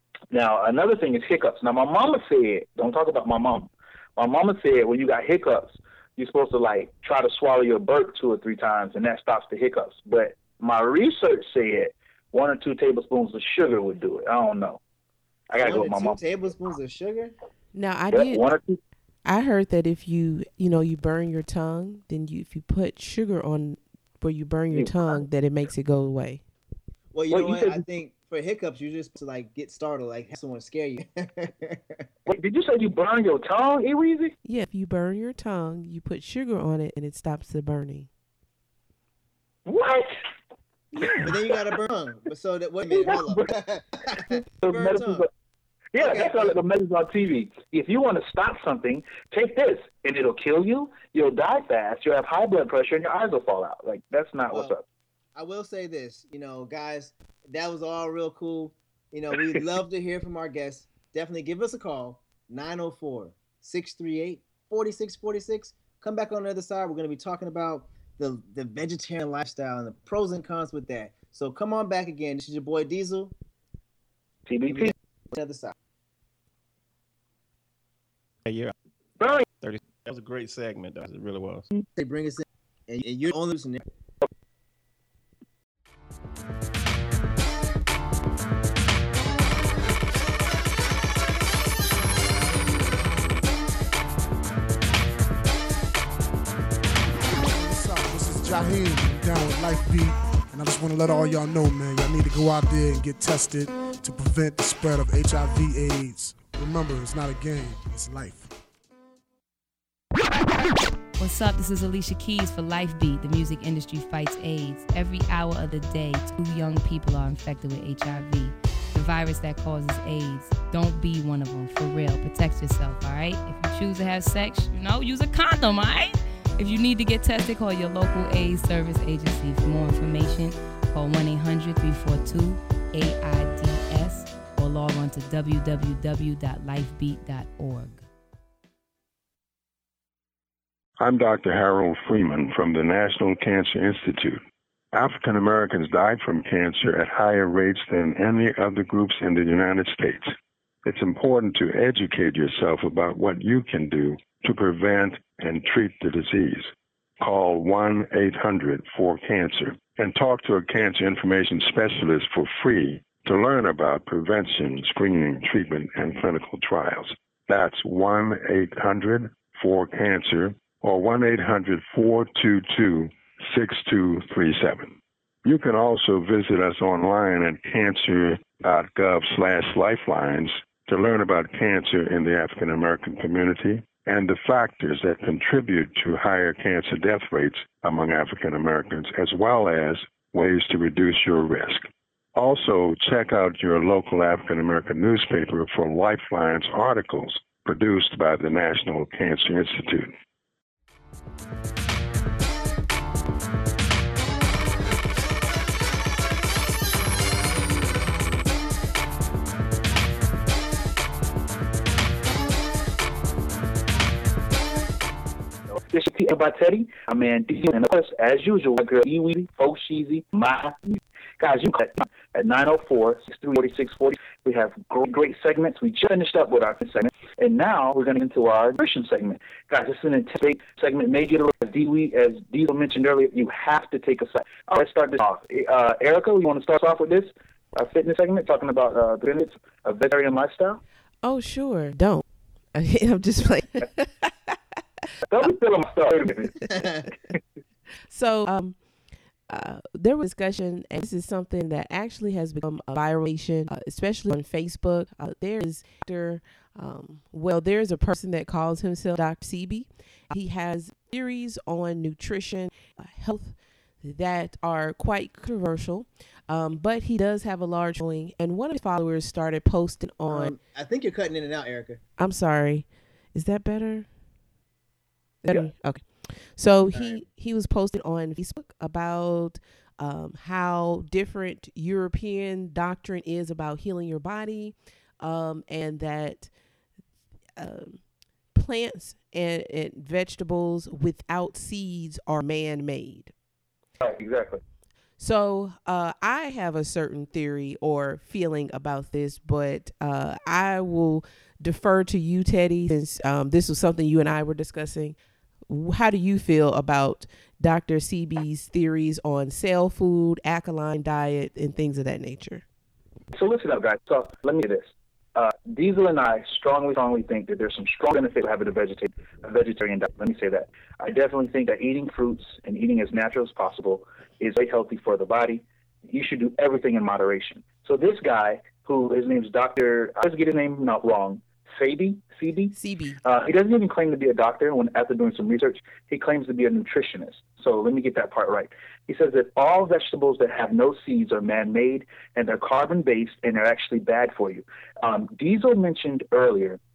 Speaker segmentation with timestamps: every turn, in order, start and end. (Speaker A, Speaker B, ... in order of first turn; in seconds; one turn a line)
Speaker A: 0.3-14.8
Speaker A: 15.5-16.2
Speaker B: 15.6-17.3
Speaker C: 17.7-18.4
Speaker A: 18.1-18.8
Speaker C: 19.2-26.4
Speaker B: 27.1-32.0
Speaker A: 27.3-27.8
Speaker A: 32.2-34.3
Speaker C: 34.4-38.1
Speaker A: 39.6-40.1
Speaker C: 40.9-41.2
Speaker B: 41.2-45.2
Speaker A: 42.9-43.5
Speaker A: 44.2-45.3
Speaker A: 45.9-54.8
Speaker B: 46.0-46.6
Speaker B: 54.5-54.7
Speaker B: 55.3-73.3
Speaker A: 74.5-74.9
Speaker B: 74.7-75.7
Speaker D: 78.4-78.7
Speaker A: 79.2-79.4
Speaker D: 79.6-81.7
Speaker B: 81.9-83.8
Speaker E: 97.4-108.5
Speaker F: 111.2-138.1
Speaker G: 141.0-144.4
Speaker G: 144.9-150.3
Speaker G: 150.8-200.1
Speaker A: 215.7-240.8
Speaker C: 241.2-244.6
Speaker A: 245.3-246.6
Speaker B: 246.7-247.1
Speaker C: 248.1-248.8
Speaker C: 249.5-270.5
Speaker B: 270.3-272.0
Speaker C: 272.2-274.1
Speaker C: 275.4-286.5
Speaker B: 276.9-277.2
Speaker C: 287.6-293.3
Speaker A: 294.0-294.6
Speaker C: 295.2-312.6
Speaker A: 313.3-346.8
Speaker C: 332.7-333.2